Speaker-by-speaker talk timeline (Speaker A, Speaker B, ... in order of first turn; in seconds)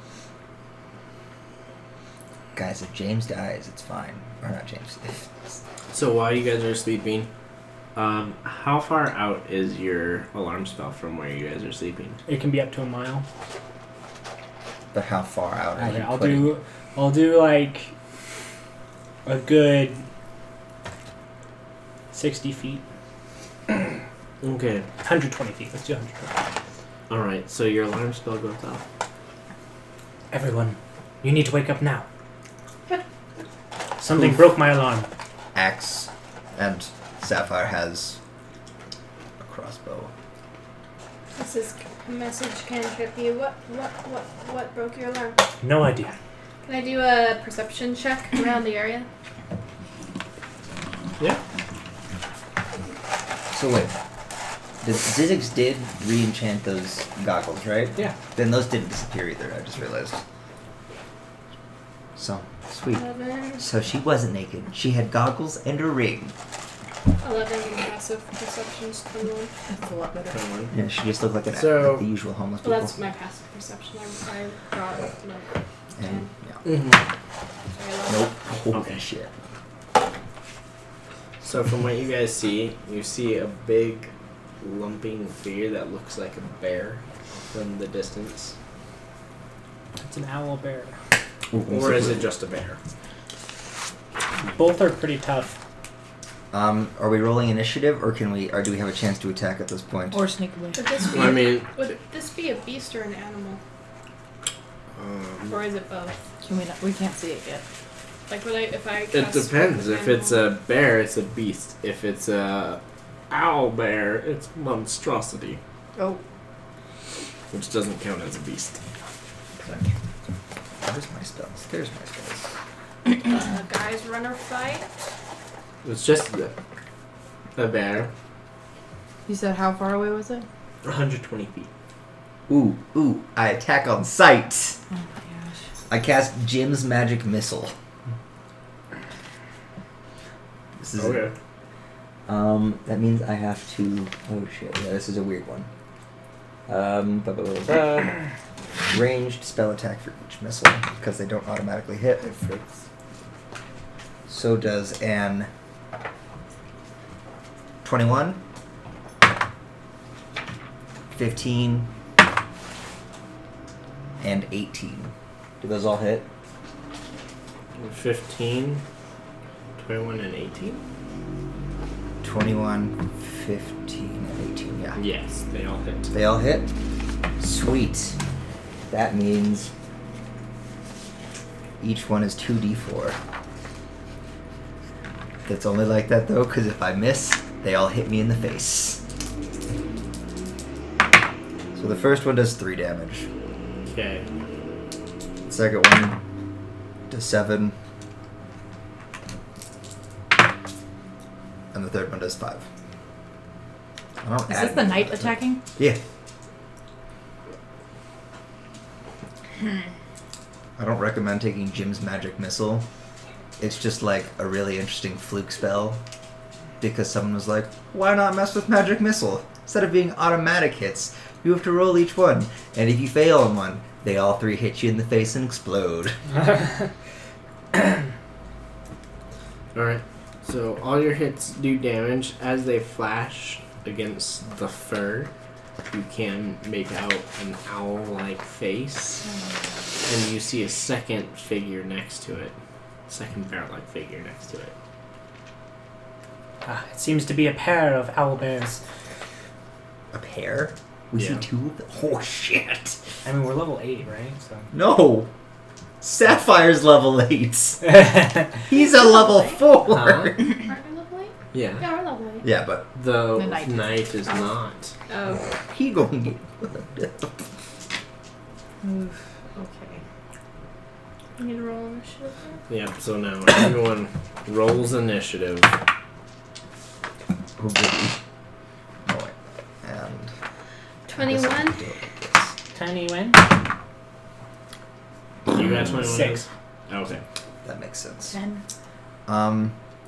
Speaker A: 2.5-5.3, 14.9-16.5, 35.5-38.2, 39.4-40.1, 53.5-54.0, 54.8-60.2, 62.2-63.0, 63.6-66.3, 70.7-72.9, 76.0-76.6, 78.1-79.3, 91.5-92.3, 96.5-100.2, 120.8-122.5, 132.5-134.8, 135.9-137.7, 140.8-141.2, 142.3-145.7, 146.7-148.1, 148.9-152.3, 154.3-155.5, 157.8-158.4, 161.2-161.9, 164.2-166.3, 172.2-175.0, 176.1-176.7, 177.4-178.2, 178.9-179.7, 181.8-183.2, 185.4-189.0, 191.8-193.3, 195.4-196.2, 197.1-197.8, 201.7-202.7, 204.2-206.0, 210.8-212.8, 213.6-216.0, 216.8-226.2, 250.1-253.0, 254.7-255.3, 256.0-258.1, 258.6-260.5, 262.4-262.9, 265.5-267.4, 277.6-278.2, 279.1-280.3, 281.2-282.5, 285.8-286.1, 287.6-288.4, 289.3-289.8
Speaker B: 5.9-7.3, 8.0-12.2, 24.4-24.9, 27.1-28.8, 70.3-70.7, 71.5-72.0, 76.7-77.0, 81.4-88.5, 91.7-92.8, 101.1-101.7, 105.0-105.6, 109.1-115.6, 117.5-118.8, 125.8-126.5, 127.6-128.1, 130.8-131.7, 141.0-141.3, 147.7-148.1, 152.2-152.8, 167.8-168.8, 169.8-170.8, 175.0-176.1, 193.9-194.2, 229.7-235.3, 235.9-239.2, 240.1-242.6, 243.1-244.7, 251.2-251.4, 259.9-260.3, 261.5-261.8, 262.9-264.9, 272.7-275.7, 285.5-287.2
Speaker C: 12.3-13.2, 15.8-17.9, 19.2-20.1, 22.1-22.8, 25.0-26.4, 30.3-32.1, 34.0-35.1, 45.6-46.1, 90.0-91.0, 94.4-95.6, 226.4-226.9, 246.7-248.8, 253.2-254.7, 257.9-258.6, 282.7-283.4, 286.1-286.4
Speaker D: 41.4-45.4, 46.6-49.1, 62.9-63.7, 67.2-69.5, 72.6-76.3, 77.7-78.3, 100.8-103.6, 105.5-106.2, 108.3-110.5, 123.2-125.0, 260.6-262.5, 265.1-265.5, 271.4-272.6, 281.1-281.8
Speaker E: 69.7-70.4, 100.1-101.0, 106.4-107.7, 116.0-116.2, 129.3-130.5, 134.9-135.6, 204.5-205.6, 263.4-264.1, 268.8-270.0, 288.3-288.6